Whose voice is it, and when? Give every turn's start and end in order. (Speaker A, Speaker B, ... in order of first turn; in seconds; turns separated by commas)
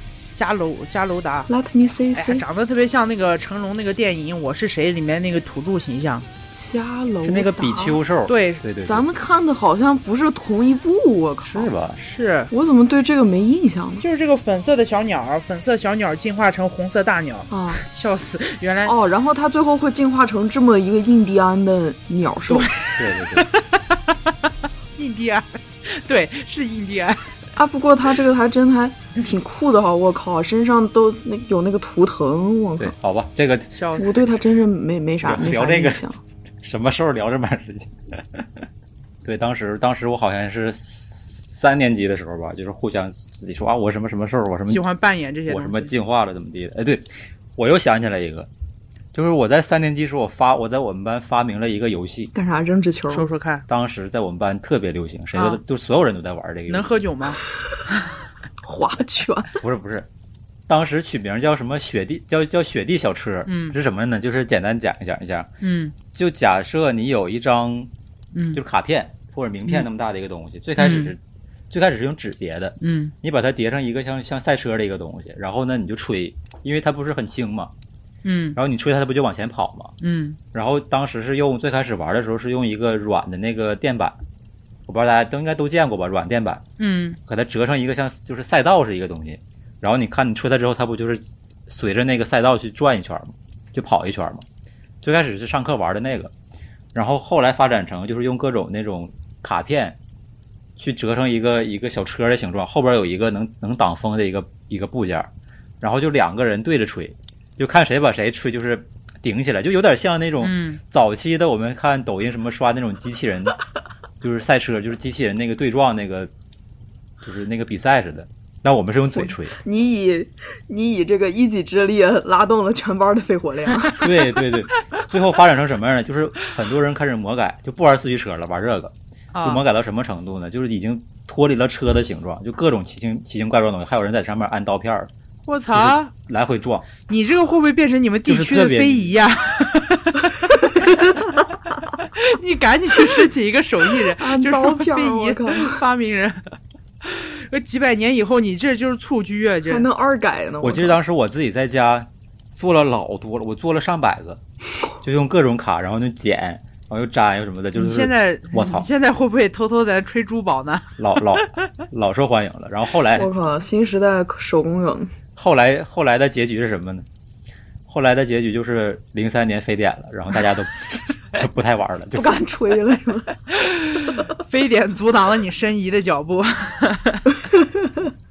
Speaker A: 0.3-1.5, Speaker B: 1.5-2.4, Speaker A: 2.1-6.3, Speaker B: 6.5-8.0, Speaker C: 7.2-9.1, Speaker A: 8.3-8.6, Speaker B: 8.8-11.7, Speaker C: 11.4-12.0, Speaker A: 12.0-12.5, Speaker B: 12.5-14.0, Speaker A: 14.0-18.9, Speaker B: 17.5-17.8, Speaker B: 18.9-22.7, Speaker A: 22.5-27.3, Speaker C: 23.0-23.5, Speaker B: 27.6-33.0, Speaker C: 32.8-33.7, Speaker A: 33.7-34.2, Speaker B: 34.0-36.2, Speaker C: 35.2-36.0, Speaker C: 36.6-38.6, Speaker C: 39.2-44.8, Speaker A: 44.7-45.9, Speaker C: 45.5-48.5, Speaker C: 49.1-52.3, Speaker B: 52.3-53.3, Speaker A: 53.1-53.6, Speaker C: 53.7-56.9, Speaker A: 55.3-55.6, Speaker A: 56.7-57.4, Speaker B: 58.6-59.5, Speaker C: 59.6-60.1, Speaker C: 60.7-65.5, Speaker A: 63.5-63.8, Speaker A: 65.6-66.0, Speaker C: 66.1-67.9, Speaker A: 68.3-68.6, Speaker C: 68.5-77.7, Speaker A: 70.8-71.1, Speaker A: 72.8-73.1, Speaker A: 78.2-78.6, Speaker C: 78.6-79.9, Speaker A: 80.0-80.4, Speaker C: 80.5-84.2, Speaker C: 84.9-86.6, Speaker A: 86.8-87.2, Speaker C: 87.3-94.4, Speaker C: 95.0-96.3, Speaker C: 97.0-100.0, Speaker C: 100.8-105.3, Speaker C: 105.8-113.6, Speaker A: 110.4-110.8, Speaker C: 114.2-116.3, Speaker C: 117.2-119.6, Speaker B: 119.2-124.1, Speaker C: 124.0-135.1, Speaker A: 129.3-129.6, Speaker A: 135.5-136.1, Speaker C: 135.7-136.9, Speaker A: 137.1-140.7, Speaker C: 138.3-139.1, Speaker A: 141.9-149.9, Speaker B: 144.1-145.8, Speaker B: 149.7-151.0, Speaker C: 150.6-154.4, Speaker C: 155.0-158.9, Speaker A: 157.8-161.4, Speaker C: 161.0-163.3, Speaker B: 163.1-165.1, Speaker C: 165.4-167.1, Speaker C: 167.9-172.4, Speaker B: 172.2-173.3, Speaker A: 173.5-177.4